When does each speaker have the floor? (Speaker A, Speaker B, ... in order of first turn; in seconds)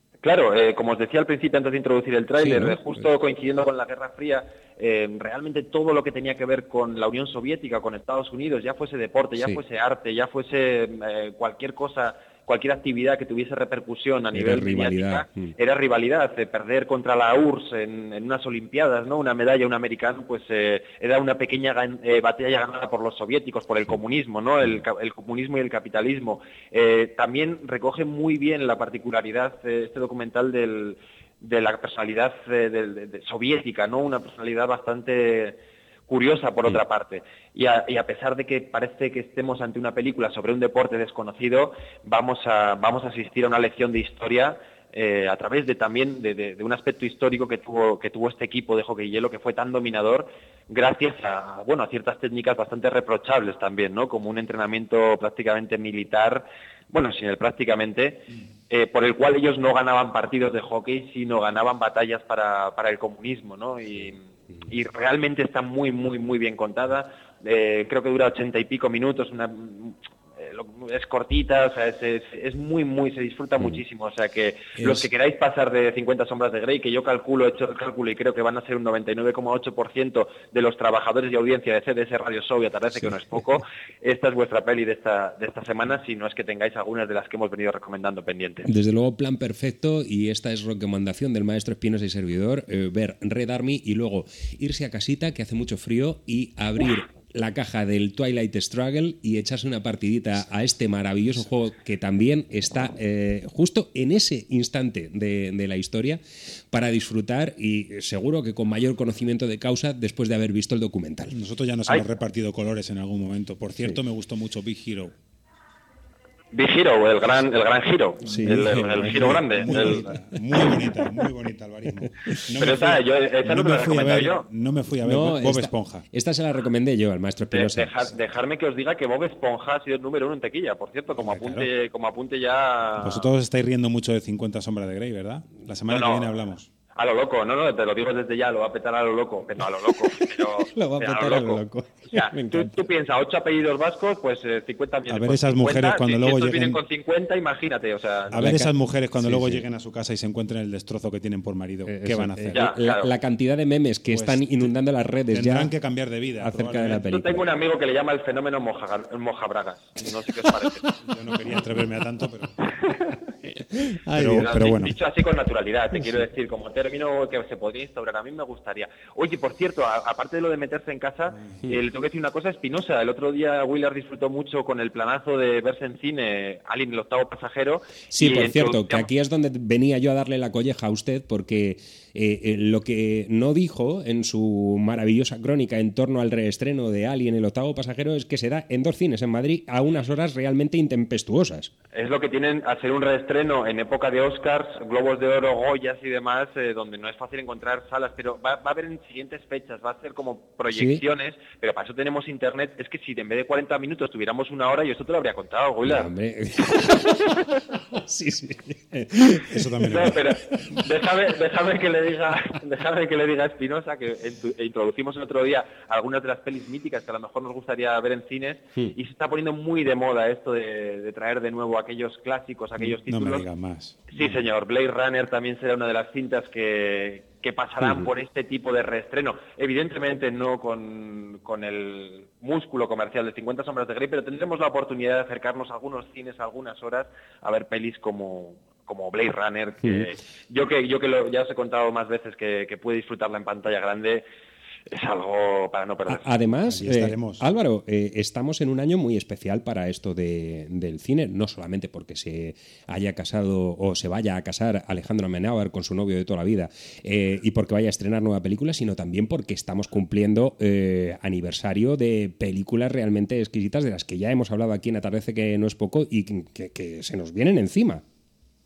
Speaker A: 0.2-88.7, 116.5-120.0, 122.6-124.5, 127.5-133.3, 135.9-136.3, 137.0-148.4, 152.5-153.1, 157.1-160.8, 164.3-179.1, 191.9-206.1, 209.9-223.5, 224.1-244.2, 244.9-246.3
Speaker B: 2.4-3.0, 14.3-15.5, 74.8-75.1, 88.7-106.2, 106.7-111.3, 118.2-120.9, 122.2-122.7, 125.0-128.1, 140.7-142.9, 148.4-149.6, 151.9-155.7, 156.4-157.4, 163.4-164.6, 178.1-191.7, 200.7-201.0, 205.8-207.3, 207.9-210.2, 227.8-228.1, 239.8-240.1, 246.1-268.0
Speaker C: 111.3-115.1, 118.5-126.0, 131.1-131.7, 133.0-136.7, 145.1-146.8, 148.3-152.7, 154.1-154.7, 155.3-157.1, 161.1-162.5, 164.1-165.0, 209.5-210.3, 223.1-224.2, 246.7-247.4